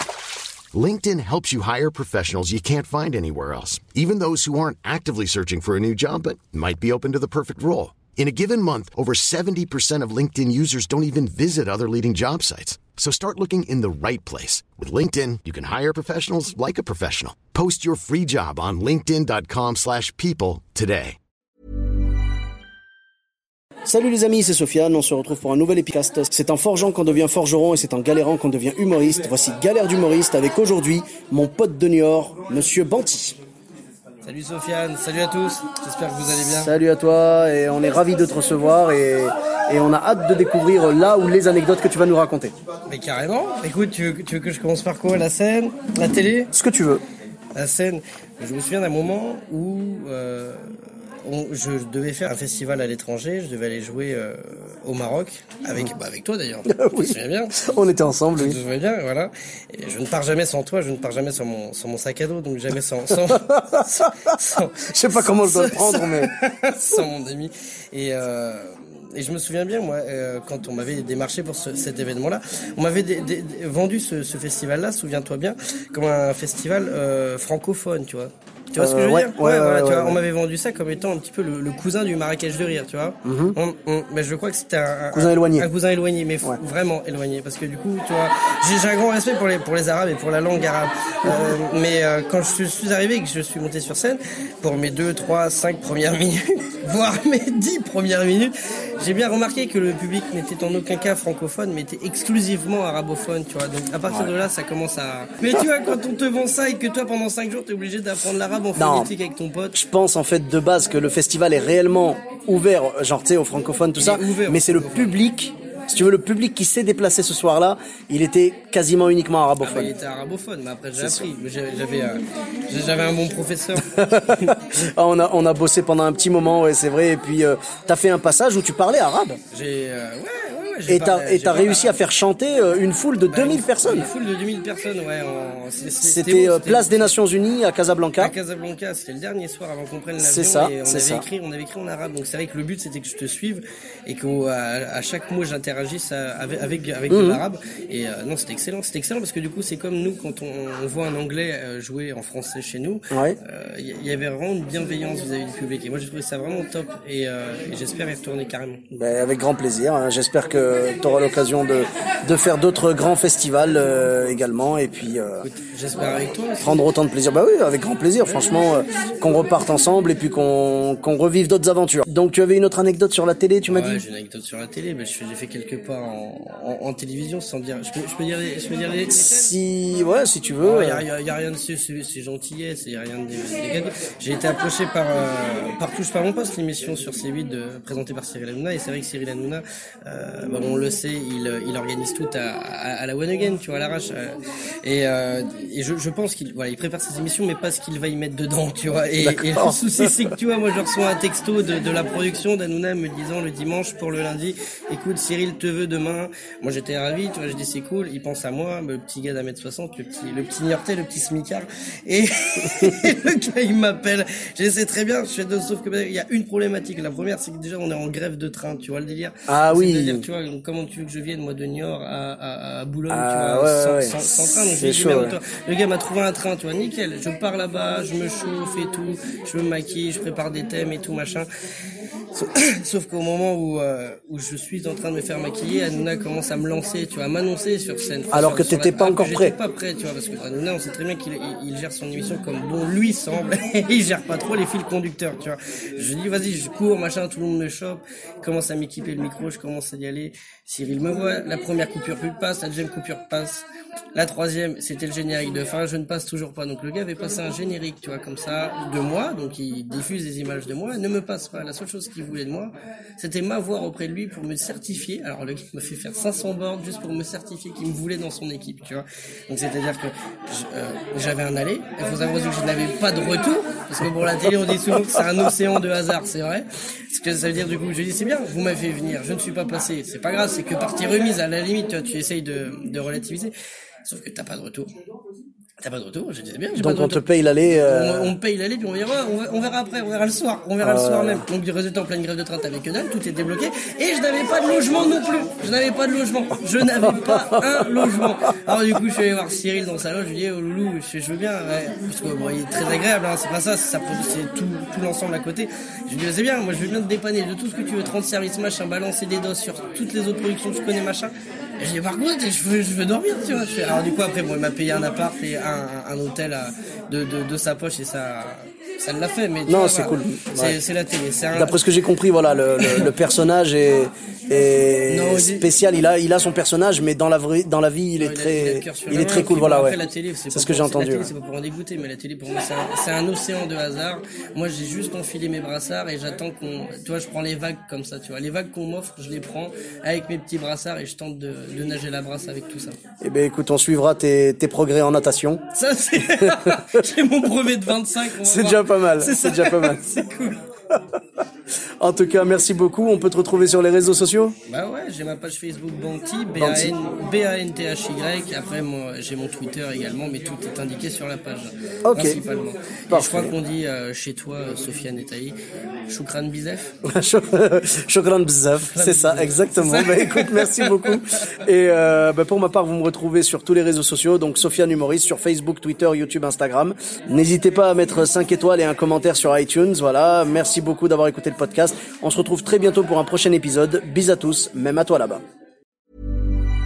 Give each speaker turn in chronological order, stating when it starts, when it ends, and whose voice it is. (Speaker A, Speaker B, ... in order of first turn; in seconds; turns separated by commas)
Speaker A: 0.7-21.2, Speaker B: 23.9-33.4, Speaker C: 34.2-36.7, Speaker B: 36.3-42.5, Speaker C: 42.9-46.5, Speaker B: 46.5-47.0, Speaker C: 47.5-50.7, Speaker C: 51.2-57.6, Speaker B: 56.7-58.6, Speaker C: 58.4-109.8, Speaker B: 63.3-64.4, Speaker B: 64.9-66.3, Speaker B: 78.8-80.2, Speaker B: 83.2-83.6, Speaker B: 85.1-85.7, Speaker B: 104.1-104.3, Speaker B: 108.8-109.1, Speaker B: 109.7-119.9, Speaker C: 114.0-115.2, Speaker C: 119.6-124.6, Speaker B: 121.0-121.3, Speaker B: 123.9-129.4, Speaker C: 129.5-132.0, Speaker B: 130.9-134.1, Speaker C: 133.3-137.1, Speaker B: 136.0-138.4, Speaker C: 138.2-158.8, Speaker B: 140.2-141.2, Speaker B: 147.1-147.4, Speaker B: 153.1-153.4, Speaker B: 158.9-165.5, Speaker C: 165.4-166.9, Speaker B: 166.6-174.0, Speaker C: 173.7-179.5, Speaker B: 179.2-181.0, Speaker C: 180.6-231.5, Speaker B: 199.2-200.3, Speaker B: 219.5-220.2, Speaker B: 223.1-225.4, Speaker C: 232.3-283.5, Speaker B: 238.3-239.6, Speaker C: 284.1-284.9, Speaker C: 285.8-321.8, Speaker B: 286.8-288.4, Speaker B: 290.8-291.4, Speaker B: 296.8-298.3, Speaker B: 319.7-320.8, Speaker B: 321.5-330.0, Speaker C: 322.8-323.1, Speaker C: 325.1-325.7, Speaker C: 328.2-343.0, Speaker B: 330.5-331.3, Speaker B: 343.2-345.6, Speaker C: 345.7-350.6, Speaker B: 346.2-346.7, Speaker B: 348.4-350.0, Speaker B: 352.0-354.6, Speaker C: 354.7-365.6, Speaker B: 356.6-356.9, Speaker B: 362.1-362.4, Speaker B: 363.1-363.5, Speaker C: 366.1-366.9, Speaker B: 367.1-385.4, Speaker C: 368.8-371.2